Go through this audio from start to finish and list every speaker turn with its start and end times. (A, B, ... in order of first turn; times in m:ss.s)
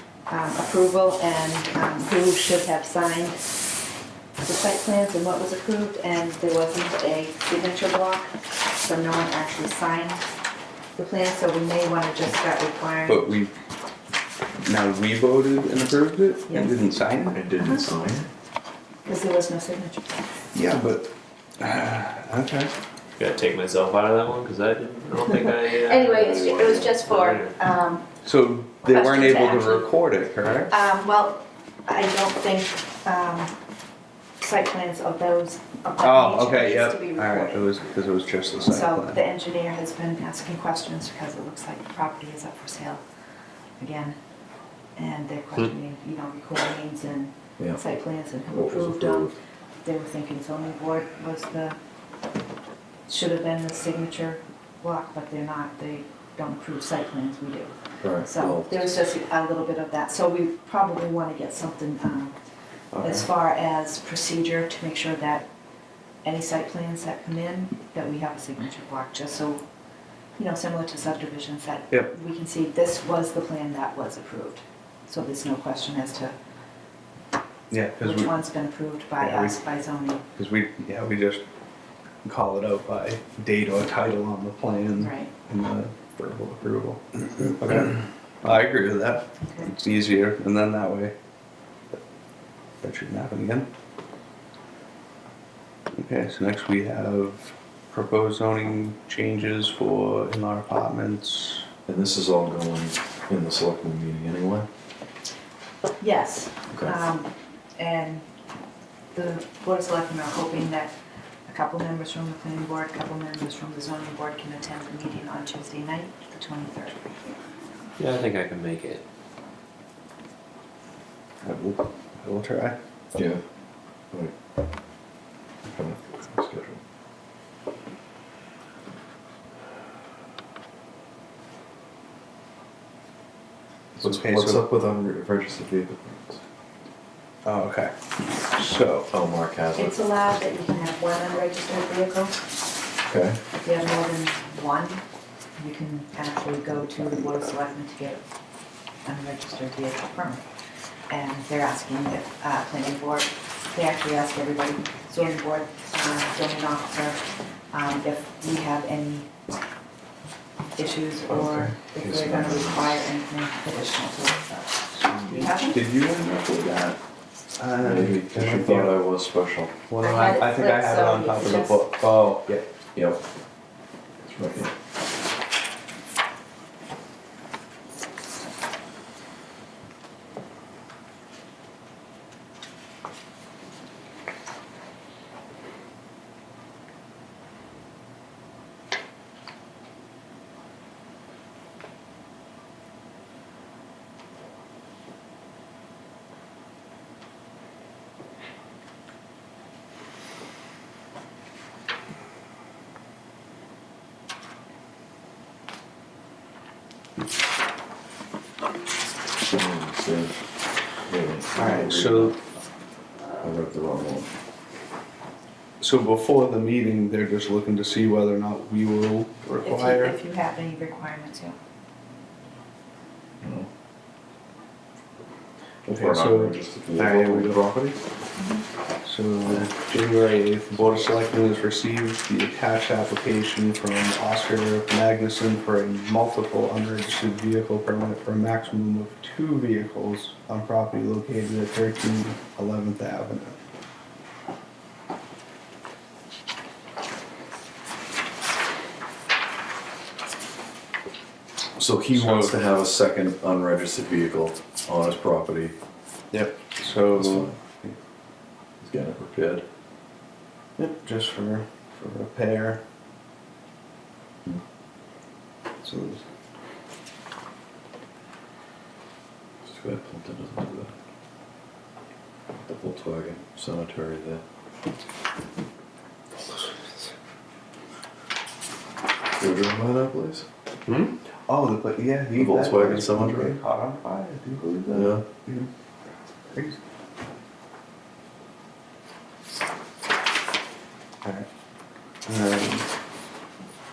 0:00.3-0:03.5 A
0:04.4-0:10.2 A
0:11.0-0:13.4 A
0:13.0-0:13.5 B
0:14.6-0:17.4 B
0:16.5-0:16.8 A
0:17.3-0:18.3 C
0:17.6-0:17.9 A
0:19.0-0:20.2 A
0:20.5-0:22.7 B
0:23.2-0:27.6 D
0:25.8-0:28.1 A
0:28.2-0:30.7 B
0:28.8-0:29.9 A
0:30.7-0:33.5 A
0:34.4-0:37.9 A
0:36.0-0:39.2 B
0:38.6-0:43.0 A
0:43.8-0:44.2 A
0:45.0-0:51.8 A
0:48.5-0:49.4 C
0:53.1-1:02.4 A
0:58.0-0:58.8 C
1:02.9-1:03.2 B
1:03.0-1:05.5 A
1:06.2-1:09.6 A
1:10.4-1:16.4 A
1:17.7-1:18.3 B
1:18.0-1:20.2 A
1:19.2-1:19.6 B
1:20.4-1:21.4 B
1:22.2-1:31.1 B
1:25.0-1:25.3 A
1:27.6-1:27.9 C
1:29.4-1:29.7 A
1:32.8-1:33.7 B
1:36.0-1:41.7 B
1:41.9-1:44.7 C
1:46.0-1:48.2 A
1:46.7-1:47.0 C
1:49.1-1:50.9 A
1:51.4-1:57.1 A
1:58.0-1:59.0 D
2:01.4-2:02.8 B
2:03.1-2:03.4 C
2:05.7-2:06.8 C
2:14.0-2:16.4 C
2:14.0-2:14.6 B
2:17.4-2:17.9 B
2:18.5-2:19.1 B
2:19.1-2:20.0 C
2:19.8-2:22.4 A
2:23.1-2:23.4 C
2:23.6-2:25.0 A
2:25.6-2:28.2 A
2:29.0-2:30.4 A
2:31.1-2:37.2 A
2:37.7-2:39.3 A
2:40.8-2:45.8 A
2:41.3-2:43.0 C
2:44.9-2:47.0 B
2:47.6-2:49.0 B
2:47.8-2:49.8 C
2:49.9-2:52.6 B
2:50.0-2:51.8 A
2:52.9-2:53.2 C
2:54.2-2:54.8 C
3:29.5-3:30.4 C
3:31.1-3:32.4 C
3:31.5-3:32.3 B
3:33.4-3:34.3 C
3:35.8-3:40.2 B
3:39.6-3:41.6 A
3:43.4-3:43.7 C
3:45.8-3:47.6 C
3:45.9-3:47.9 B
3:48.4-3:48.6 A
3:49.0-4:03.6 B
4:11.8-4:15.8 C
4:12.1-4:12.6 B
4:16.3-4:18.0 B
4:17.1-4:17.6 C
4:18.8-4:19.6 C
4:20.8-4:22.8 B
4:25.8-4:26.2 B
4:29.6-4:30.9 C
4:32.6-4:34.4 C
4:39.4-4:40.4 C
4:40.9-4:41.1 D
4:41.5-4:45.7 B
4:42.3-4:43.6 C
4:44.9-4:45.2 C
4:46.5-4:46.8 B
4:52.2-4:52.9 B